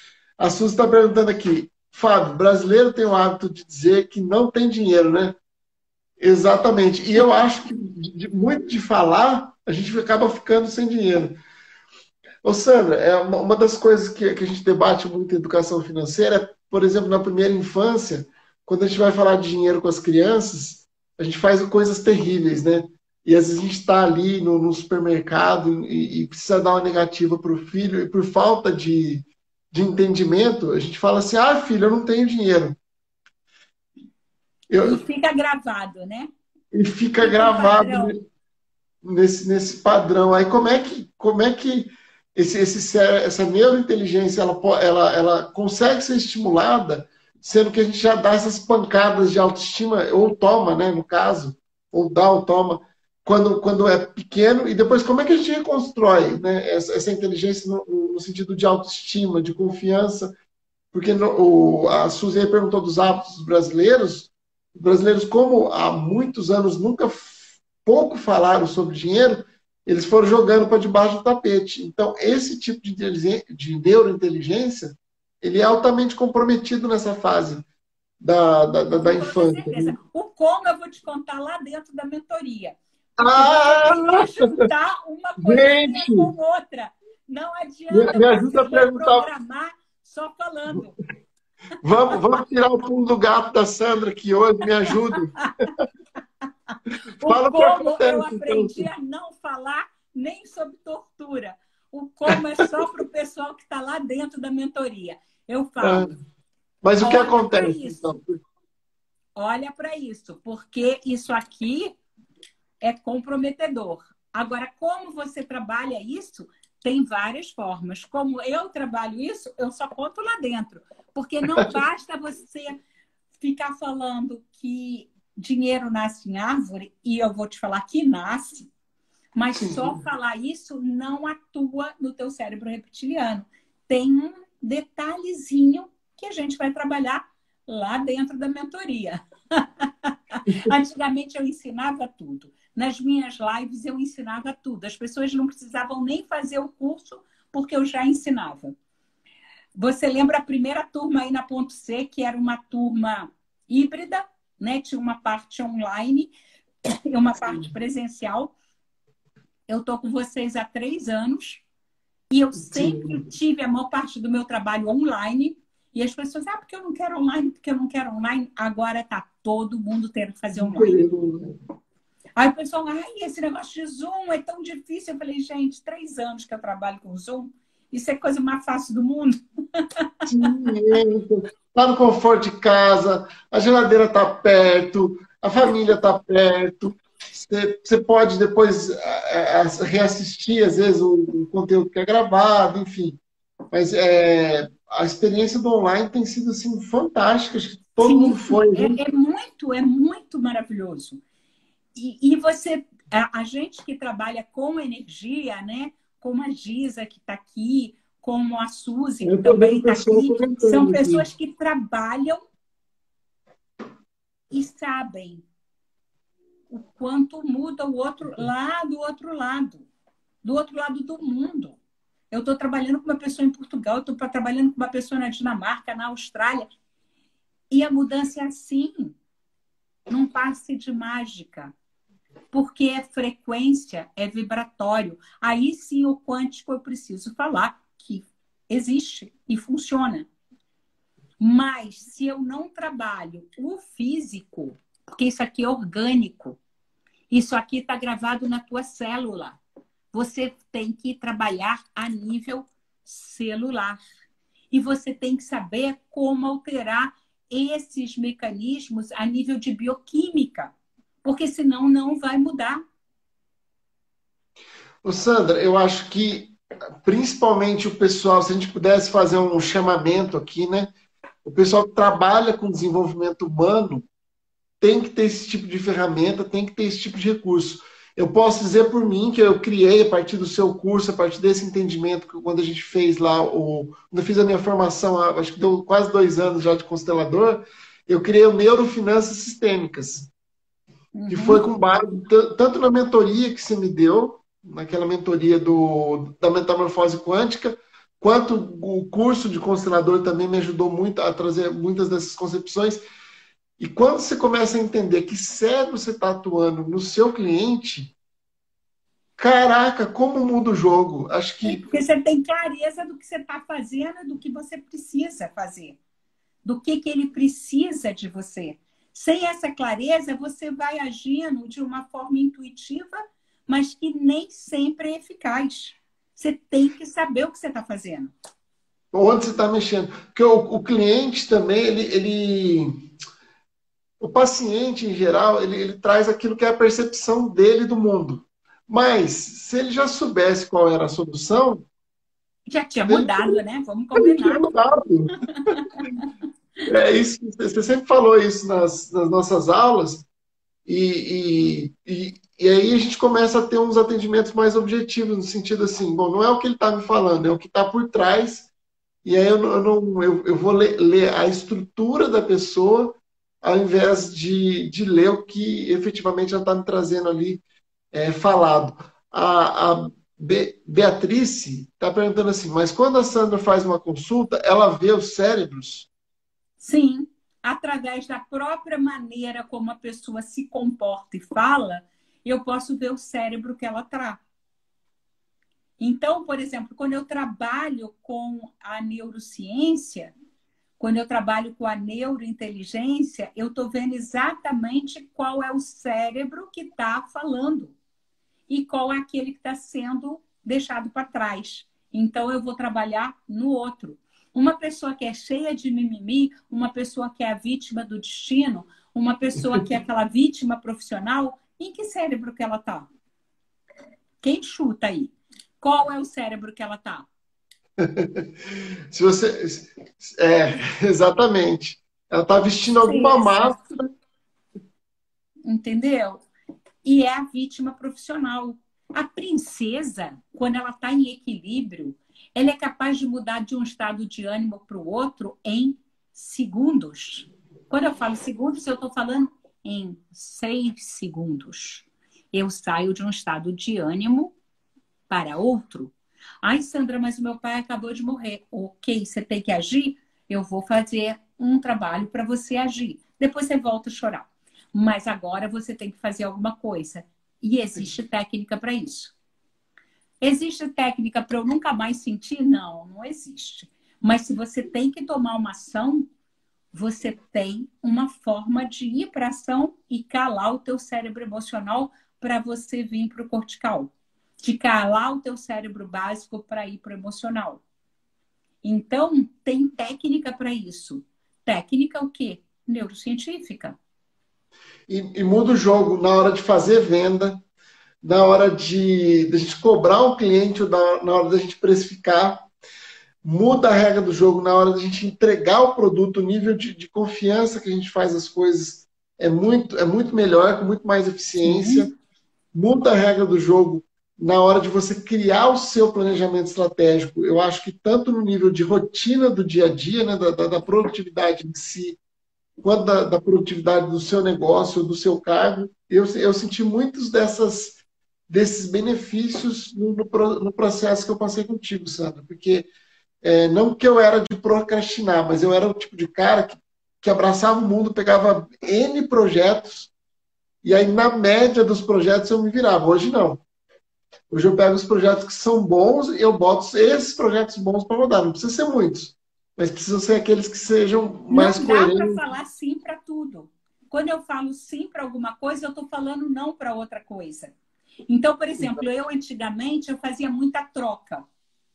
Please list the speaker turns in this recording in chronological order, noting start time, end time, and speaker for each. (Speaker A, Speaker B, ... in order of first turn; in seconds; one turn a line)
Speaker A: 0.4-5.4
Speaker A: 6.2-11.4
Speaker A: 12.4-32.8
Speaker A: 34.7-35.0
Speaker B: 34.8-36.3
Speaker A: 36.7-38.2
Speaker B: 37.2-38.1
Speaker A: 39.0-60.3
Speaker A: 60.9-77.6
Speaker A: 78.2-80.0
Speaker B: 79.0-91.0
Speaker A: 83.2-84.6
Speaker A: 85.4-86.3
Speaker A: 87.9-89.3
Speaker A: 91.8-95.7
Speaker B: 97.2-106.1
Speaker A: 97.2-98.8
Speaker A: 105.8-106.1
Speaker A: 106.8-108.4
Speaker B: 107.0-108.1
Speaker B: 109.4-111.9
Speaker B: 112.8-122.8
Speaker B: 123.4-128.7
Speaker B: 129.3-148.7
Speaker A: 129.6-129.9
Speaker A: 140.5-140.7
Speaker B: 149.7-156.3
Speaker B: 156.8-158.6
Speaker B: 159.7-161.6
Speaker B: 162.3-171.0
Speaker A: 162.5-163.2
Speaker A: 170.6-171.5
Speaker B: 172.4-180.5
Speaker A: 180.3-193.2
Speaker A: 193.7-199.0
Speaker B: 198.0-201.2
Speaker B: 201.9-212.4
Speaker A: 209.2-211.3
Speaker B: 214.5-215.4
Speaker B: 216.7-219.9
Speaker B: 220.4-221.8
Speaker B: 222.3-226.7
Speaker B: 227.7-229.2
Speaker B: 230.1-231.7
Speaker B: 232.5-240.3
Speaker B: 241.4-246.6
Speaker B: 247.3-249.6
Speaker B: 250.1-254.0
Speaker B: 254.7-260.7
Speaker B: 261.2-262.8
Speaker A: 265.0-270.9
Speaker A: 271.4-274.1
Speaker A: 274.8-290.3
Speaker B: 291.1-291.6
Speaker A: 291.3-303.0
Speaker A: 303.8-308.1
Speaker A: 309.4-311.8
Speaker B: 311.6-316.0
Speaker B: 316.6-328.3
Speaker A: 329.1-332.9
Speaker A: 334.2-341.9
Speaker B: 342.7-344.7
Speaker A: 343.1-343.6
Speaker A: 344.1-345.8
Speaker B: 345.7-346.3
Speaker A: 346.9-350.3
Speaker A: 350.9-358.7
Speaker A: 359.2-376.1
Speaker B: 376.8-384.4
Speaker B: 386.0-390.3
Speaker B: 391.0-397.9
Speaker B: 398.7-413.1
Speaker B: 414.4-417.3
Speaker A: 418.0-418.5
Speaker A: 419.1-424.1
Speaker B: 423.0-423.8
Speaker B: 425.6-426.4
Speaker B: 427.0-444.5
Speaker B: 445.3-459.4
Speaker B: 460.4-466.3
Speaker B: 466.9-477.8
Speaker B: 478.8-483.9
Speaker A: 485.1-487.6
Speaker A: 488.2-492.7
Speaker A: 493.4-502.1
Speaker B: 501.6-502.1
Speaker A: 502.7-512.2
Speaker A: 512.8-522.9
Speaker A: 523.4-530.1
Speaker A: 530.8-533.6
Speaker A: 534.5-542.4
Speaker B: 541.5-547.7
Speaker B: 548.3-551.4